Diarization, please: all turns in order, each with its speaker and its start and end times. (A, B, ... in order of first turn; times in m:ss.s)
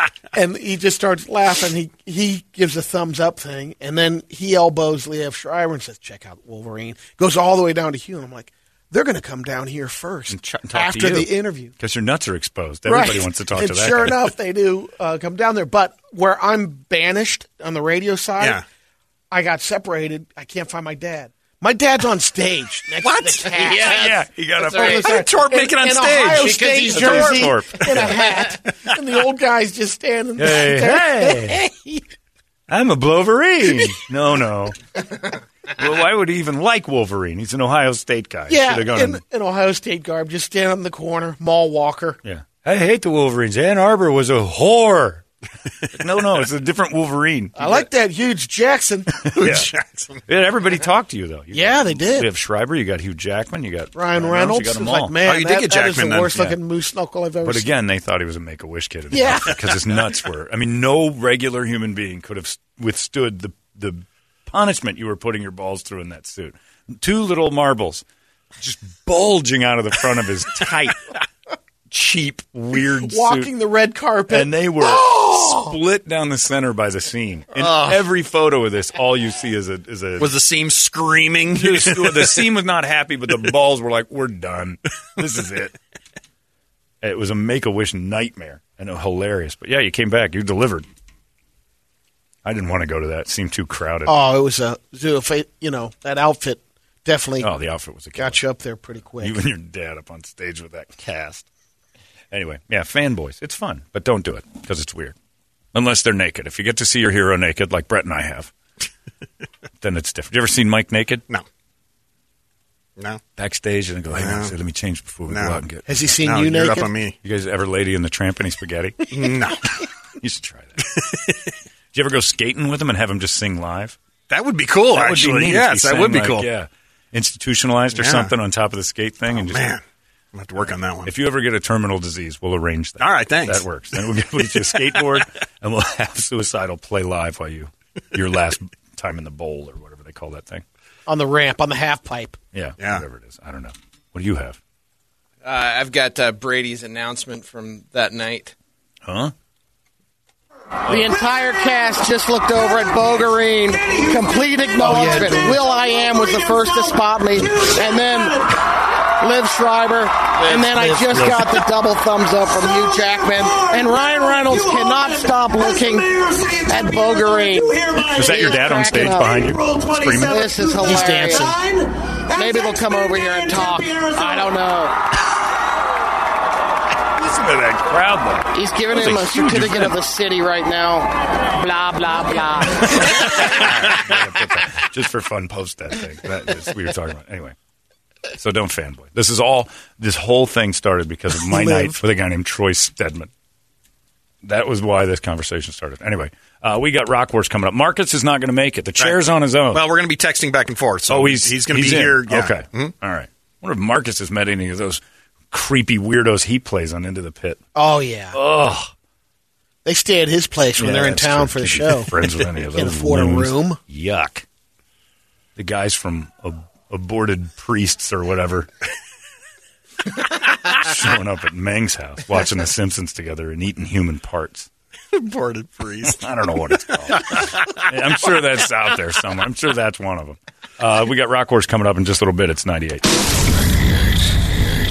0:00.3-0:11.7 A
0:10.3-0:14.3 B
0:12.8-0:18.6 A
0:19.3-0:23.9 A
0:23.0-0:24.1 C
0:23.7-0:25.0 D
0:23.8-0:25.2 B
0:24.7-0:32.0 A
0:24.9-0:27.4 C
0:26.3-0:27.4 D
0:26.9-0:28.2 B
0:28.2-0:28.5 D
0:30.4-0:31.6 B
0:32.7-0:34.8 B
0:35.7-0:39.2 B
0:38.5-0:42.2 A
0:42.2-0:45.2 B
0:45.8-0:47.8 B
0:47.6-0:49.5 A
0:49.3-0:49.7 B
0:49.4-0:50.2 C
0:50.3-0:55.2 B
0:51.5-0:52.3 A
0:53.9-0:57.7 A
0:55.2-0:56.3 C
0:56.3-0:56.6 B
0:57.4-1:08.0 B
0:59.1-0:59.5 A
1:08.6-1:11.1 B
1:11.9-1:13.5 B
1:12.9-1:15.5 A
1:14.3-1:20.3 B
1:17.6-1:18.0 C
1:20.2-1:22.4 C
1:21.5-1:25.8 B
1:27.0-1:30.9 B
1:32.4-1:34.1 B
1:34.0-1:37.5 A
1:37.4-1:38.4 B
1:38.2-1:39.4 A
1:39.2-1:41.5 B
1:42.3-1:45.2 B
1:45.7-1:48.5 B
1:49.8-1:51.2 B
1:53.4-1:56.1 B
1:54.1-1:54.5 C
1:55.3-1:55.6 C
1:55.9-1:56.9 A
1:56.2-1:57.2 C
1:57.2-1:59.3 B
1:59.1-1:59.8 C
2:00.2-2:01.0 B
2:01.9-2:04.0 B
2:04.3-2:06.5 C
2:04.9-2:09.7 B
2:07.9-2:08.3 C
2:09.3-2:11.1 C
2:10.6-2:20.6 B
2:13.0-2:13.6 C
2:21.1-2:22.4 A
2:22.5-2:24.6 B
2:22.8-2:23.0 C
2:25.4-2:28.5 D
2:29.0-2:29.3 B
2:30.8-2:49.5 E
2:34.8-2:35.4 A
2:35.0-2:35.4 B
2:40.7-2:41.4 A
2:41.0-2:41.4 B
2:48.1-2:50.5 B
2:50.3-2:51.5 E
2:50.8-2:51.8 A
2:52.2-2:55.0 E
2:57.2-3:00.0 B
2:58.5-3:03.6 E
3:03.3-3:07.6 B
3:08.4-3:13.3 B
3:11.5-3:11.9 A
3:14.4-3:19.8 B
3:19.0-3:22.9 C
3:21.1-3:27.6 B
3:27.7-3:28.4 A
3:28.3-3:28.9 B
3:29.8-3:33.8 A
3:30.8-3:34.4 B
3:35.6-3:38.7 B
3:40.6-3:44.7 B
3:45.1-3:46.2 C
3:46.1-3:53.2 B
3:47.0-3:47.8 C